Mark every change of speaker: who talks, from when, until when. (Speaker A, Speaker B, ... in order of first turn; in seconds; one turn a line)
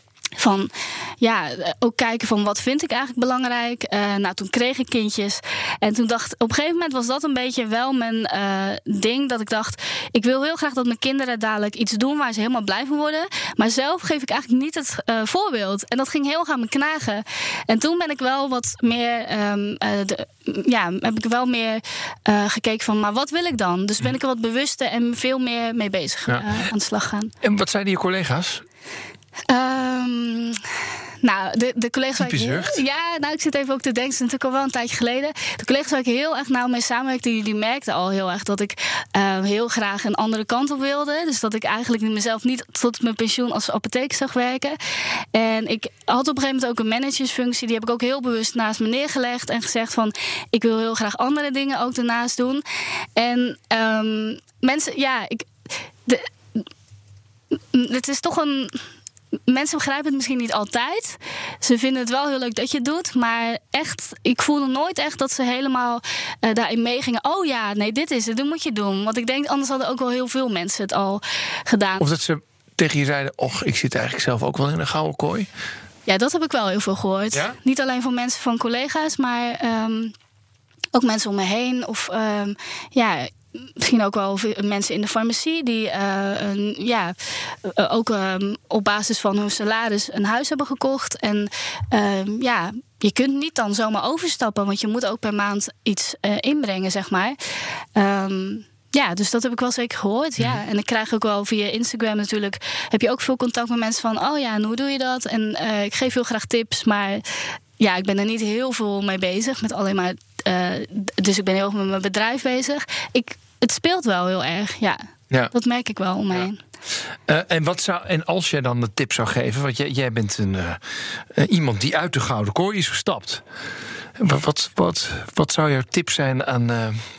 Speaker A: 0.4-27.3
Speaker B: 26.3-26.6
Speaker B: 27.4-28.6
Speaker A: 29.5-30.6
Speaker A: 31.2-44.8
Speaker B: 32.2-32.8
Speaker A: 45.3-52.6
Speaker A: 53.1-55.5
Speaker A: 56.0-56.6
Speaker A: 57.7-58.7
Speaker A: 59.5-72.0
Speaker B: 72.0-75.5
Speaker A: 76.0-80.1
Speaker A: 80.9-97.4
Speaker A: 98.0-107.2
Speaker A: 107.8-115.0
Speaker A: 115.5-116.6
Speaker B: 117.2-120.8
Speaker B: 121.3-123.4
Speaker B: 124.2-127.0